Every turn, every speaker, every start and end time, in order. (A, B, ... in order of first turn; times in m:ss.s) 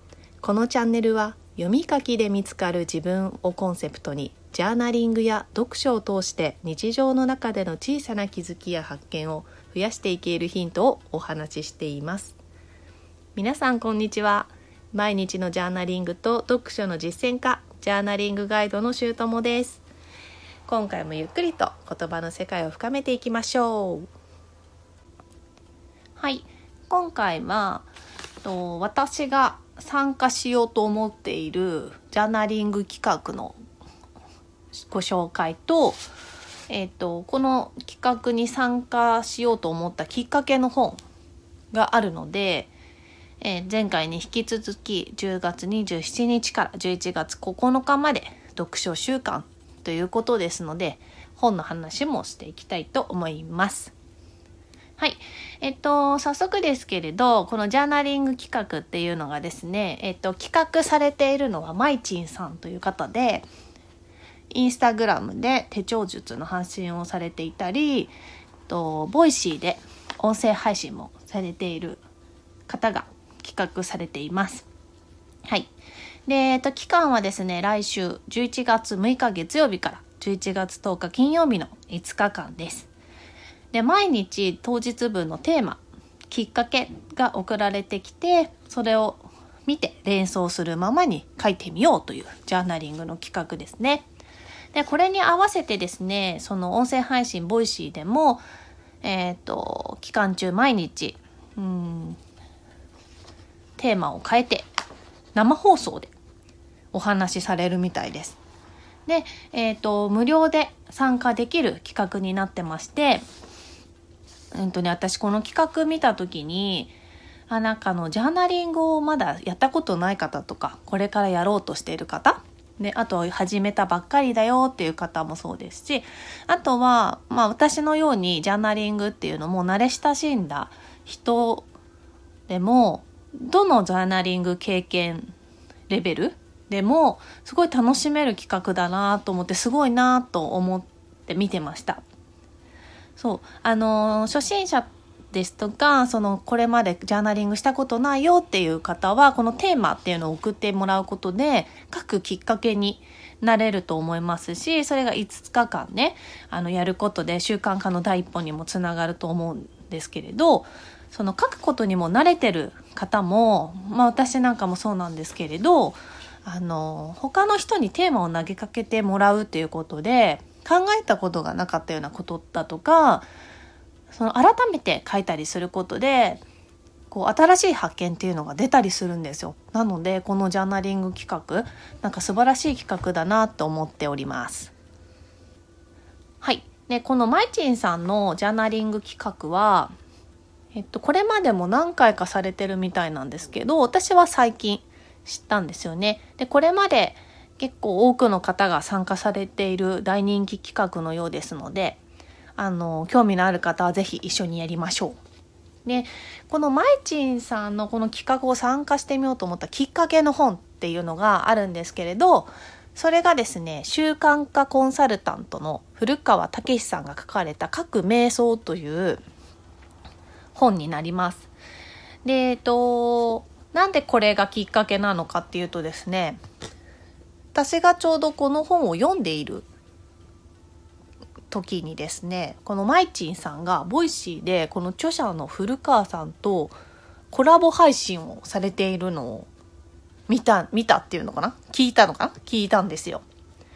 0:00.4-0:12.4 A
0:13.4-0:19.8 A
0:20.7-0:24.1 A
0:26.2-0:27.9 A
0:28.4-0:33.6 A
0:34.9-0:36.0 A
0:36.7-0:41.0 A
0:41.7-0:42.7 A
0:43.4-0:53.9 A
0:55.0-1:03.5 A
1:04.5-1:08.1 A
1:08.7-1:12.0 A
1:12.7-1:14.7 A
1:15.4-1:15.7 A
1:16.3-1:22.9 A
1:23.7-1:34.1 A
1:34.7-1:38.4 A
1:39.0-1:42.2 A
1:43.8-1:44.7 A
1:45.4-1:46.1 A
1:46.9-1:48.4 A
1:49.1-1:53.2 A
1:54.5-1:56.9 A
1:57.5-2:11.7 A
2:12.5-2:15.3 A
2:15.9-2:22.0 A
2:23.2-2:53.3 A
2:54.1-2:56.4 A
2:57.1-3:04.7 A
3:06.4-3:09.9 A
3:10.7-3:22.0 A
3:22.6-3:25.2 A
3:25.8-3:39.2 A
3:40.6-3:41.5 A
3:42.2-3:46.4 A
3:47.5-3:49.7 A
3:51.5-3:56.8 A
3:57.3-3:59.5 A
4:00.3-4:03.2 A